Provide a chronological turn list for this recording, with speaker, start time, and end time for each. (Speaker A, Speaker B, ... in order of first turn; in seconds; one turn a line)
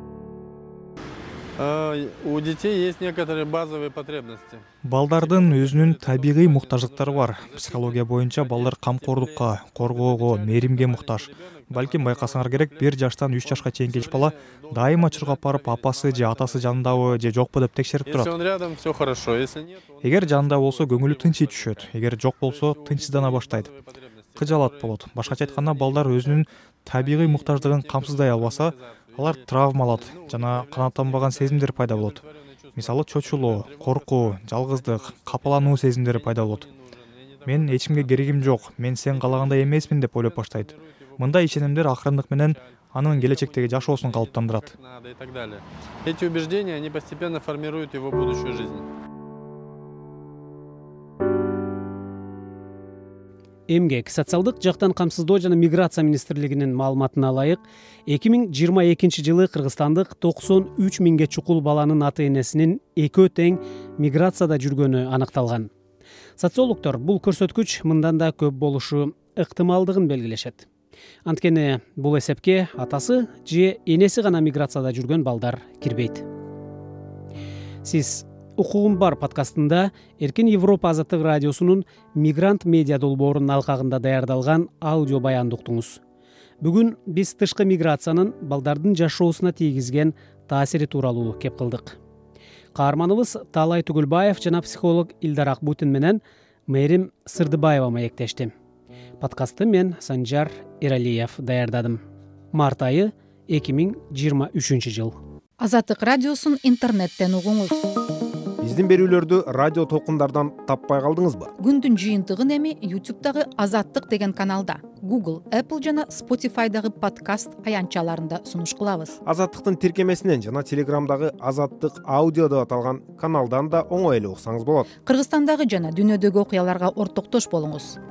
Speaker A: 1.6-17.1
Speaker B: 4.8-18.3
Speaker A: 18.1-41.8
Speaker B: 20.0-23.7
Speaker B: 24.4-32.2
Speaker B: 32.8-36.7
Speaker B: 37.4-44.7
Speaker A: 42.4-48.9
Speaker C: 53.7-65.7
Speaker C: 66.4-70.7
Speaker C: 71.2-76.2
Speaker C: 77.8-86.0
Speaker C: 86.6-92.0
Speaker C: 92.7-98.5
Speaker C: 99.2-102.0
Speaker C: 102.5-105.2
Speaker D: 105.6-107.8
Speaker E: 108.6-111.5
Speaker D: 111.6-119.1
Speaker E: 119.2-124.9
Speaker D: 125.0-128.0